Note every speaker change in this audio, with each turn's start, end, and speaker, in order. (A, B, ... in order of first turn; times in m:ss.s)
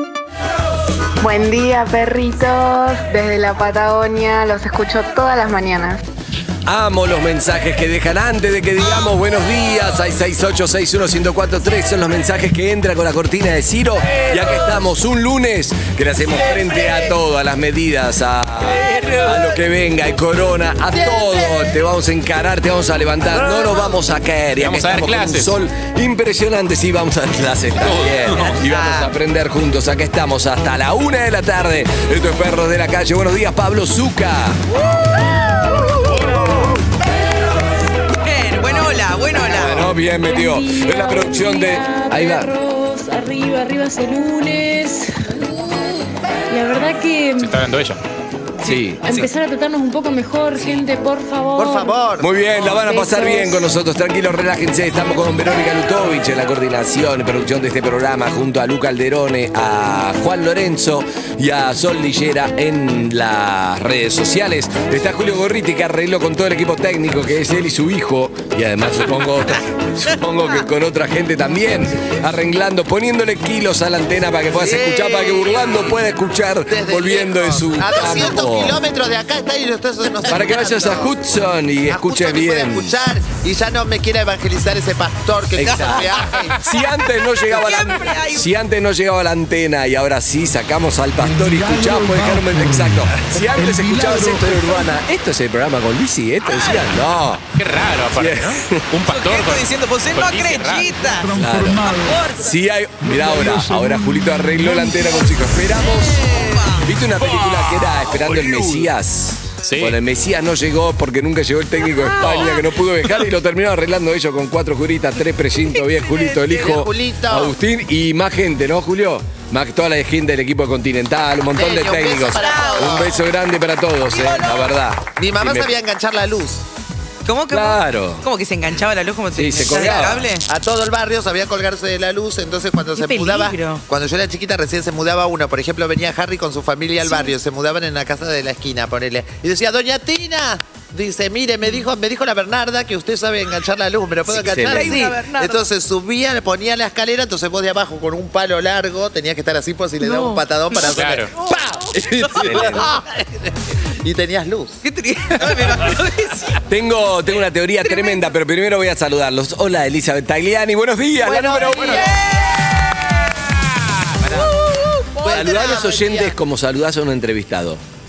0:01.2-0:06.0 A
0:06.6-0:34.6 B
0:20.9-0:21.5 C
0:24.6-0:25.5 D
0:27.8-0:28.6 D
0:38.2-0:39.9 E
0:39.4-0:42.5 B
0:39.8-0:47.5 F
0:47.4-0:48.0 D
0:48.6-0:49.2 B
0:48.6-0:52.0 F
0:51.6-0:52.3 C
0:52.2-1:18.8 B
0:52.7-0:53.7 F
1:14.5-1:15.9 C
1:16.7-1:21.1 C
1:20.2-1:23.0 B
1:21.9-1:26.6 C
1:25.5-1:37.4 B
1:25.6-1:26.0 E
1:27.4-1:28.5 E
1:37.5-1:41.2 D
1:38.1-1:38.9 B
1:39.1-1:42.5 E
1:41.3-2:05.7 B
1:46.0-1:46.8 E
1:47.2-1:48.9 D
1:49.6-1:50.0 D
1:52.1-1:52.5 E
1:52.2-1:52.5 D
1:55.7-1:56.7 E
1:56.5-1:57.5 C
2:01.5-2:03.2 C
2:02.3-2:03.1 E
2:04.1-2:04.7 E
2:05.2-2:06.6 C
2:07.2-2:10.4 E
2:07.5-2:08.2 B
2:09.3-2:10.2 B
2:09.7-2:34.8 C
2:13.0-2:13.8 E
2:17.0-2:17.3 E
2:24.3-2:25.1 B
2:24.3-2:25.6 E
2:30.0-2:30.8 E
2:30.9-2:31.3 D
2:31.4-2:33.0 E
2:32.4-2:32.9 B
2:34.8-2:36.6 E
2:36.6-2:42.1 B
2:41.2-2:42.2 C
2:41.8-2:43.3 E
2:44.4-2:45.6 E
2:45.2-2:46.4 C
2:45.2-2:47.8 B